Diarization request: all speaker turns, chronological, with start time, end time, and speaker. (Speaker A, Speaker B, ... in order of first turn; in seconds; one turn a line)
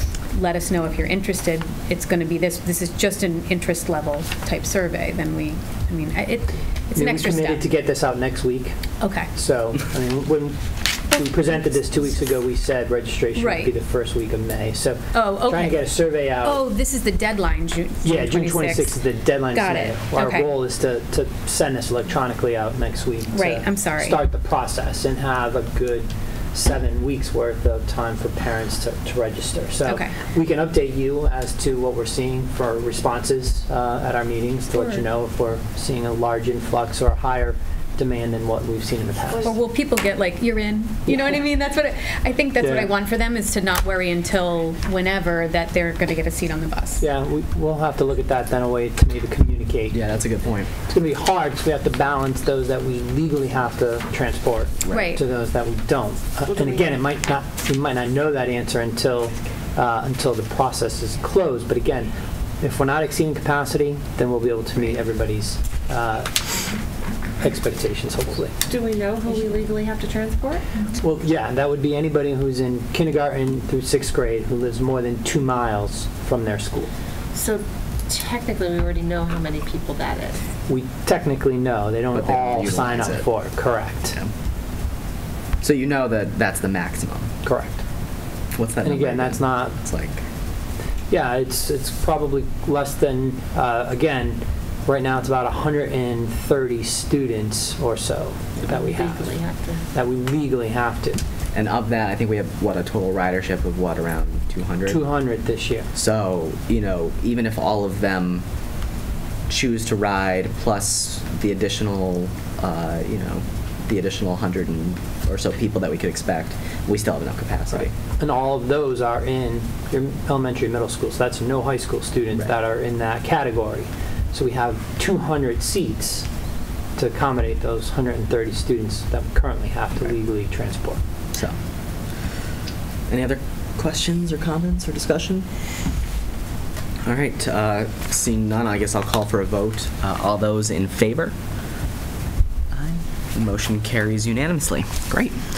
Speaker A: 0.3-7.6
Speaker B: 6.9-8.7
Speaker A: 9.0-9.3
Speaker B: 9.3-16.6
Speaker A: 11.2-11.5
Speaker A: 13.3-13.7
Speaker A: 15.1-19.0
Speaker B: 18.0-39.5
Speaker A: 19.5-20.5
Speaker A: 23.3-24.2
Speaker A: 29.9-30.1
Speaker C: 34.7-35.0
Speaker A: 39.4-47.0
Speaker B: 41.0-41.4
Speaker B: 42.6-42.9
Speaker B: 47.0-50.0
Speaker D: 49.9-50.7
Speaker B: 50.8-66.4
Speaker A: 54.9-55.2
Speaker B: 67.4-68.5
Speaker C: 68.7-70.7
Speaker B: 71.0-76.9
Speaker C: 77.3-80.4
Speaker B: 80.7-84.2
Speaker D: 82.1-83.3
Speaker D: 85.6-87.3
Speaker B: 87.4-87.8
Speaker D: 88.5-90.2
Speaker B: 88.8-89.8
Speaker B: 91.1-101.2
Speaker C: 98.7-99.9
Speaker D: 101.5-105.0
Speaker B: 104.9-105.9
Speaker D: 105.9-108.4
Speaker D: 109.5-117.9
Speaker B: 118.2-126.3
Speaker B: 127.0-131.0
Speaker D: 133.1-135.5
Speaker D: 137.1-141.3
Speaker D: 142.7-145.3